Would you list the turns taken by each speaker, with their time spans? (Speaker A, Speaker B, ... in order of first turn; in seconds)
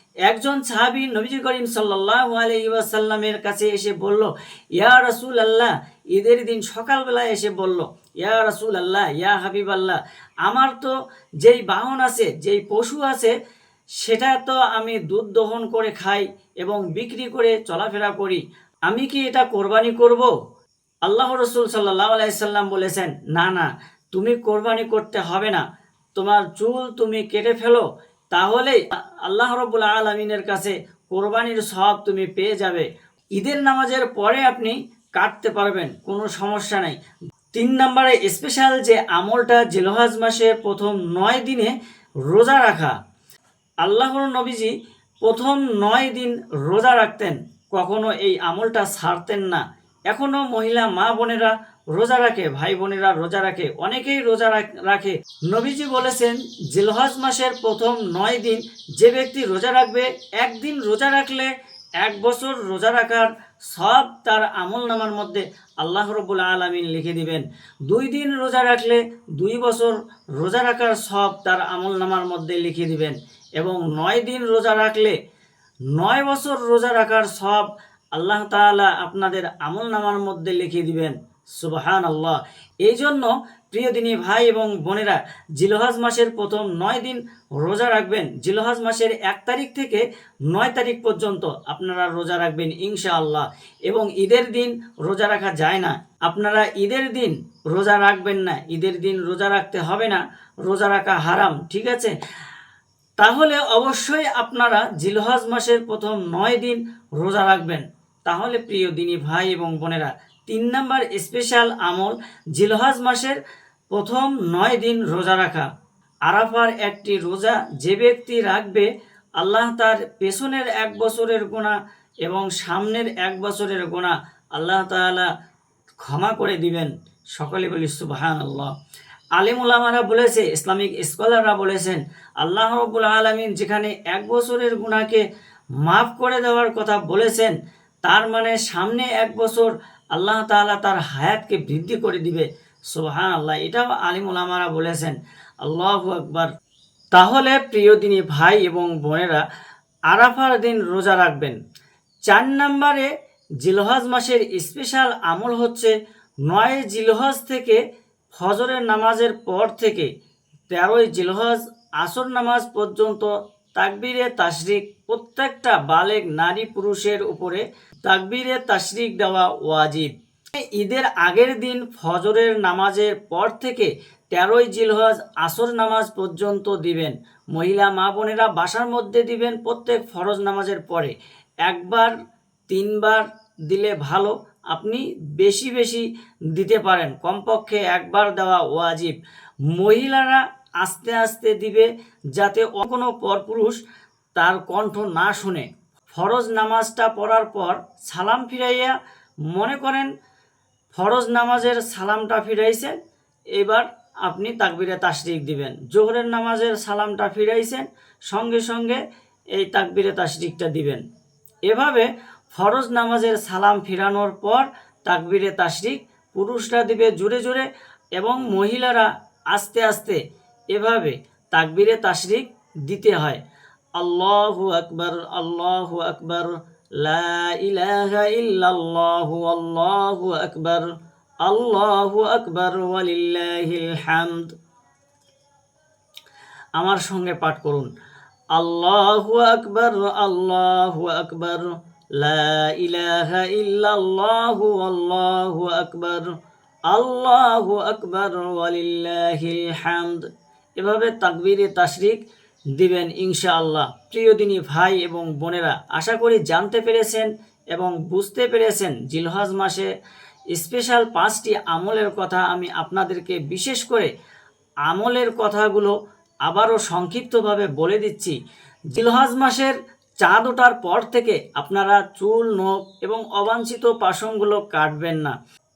Speaker A: 0.2-13.3, 14.0-20.3, 21.1-25.6, 26.2-37.0, 37.5-41.8, 42.3-43.0, 43.8-75.2, 75.9-102.2, 103.2-113.4, 113.9-115.7, 116.3-118.9, 119.4-125.3, 126.0-128.7, 129.4-135.2, 135.8-146.5, 147.1-149.4, 150.1-151.6, 152.3-155.9, 156.5-157.8, 158.3-160.1, 160.7-181.1, 181.7-182.1, 182.7-189.1, 189.7-193.8, 194.4-198.9, 199.5-200.1, 200.9-203.0, 203.5-209.0, 209.5-211.0, 211.7-220.2, 220.7-223.4, 224.0-230.9, 231.4-234.5, 236.8-237.9, 238.5-246.3, 246.9-250.2, 250.8-252.2, 252.8-259.9, 260.5-264.1, 264.9-265.9, 266.5-268.4, 268.9-275.4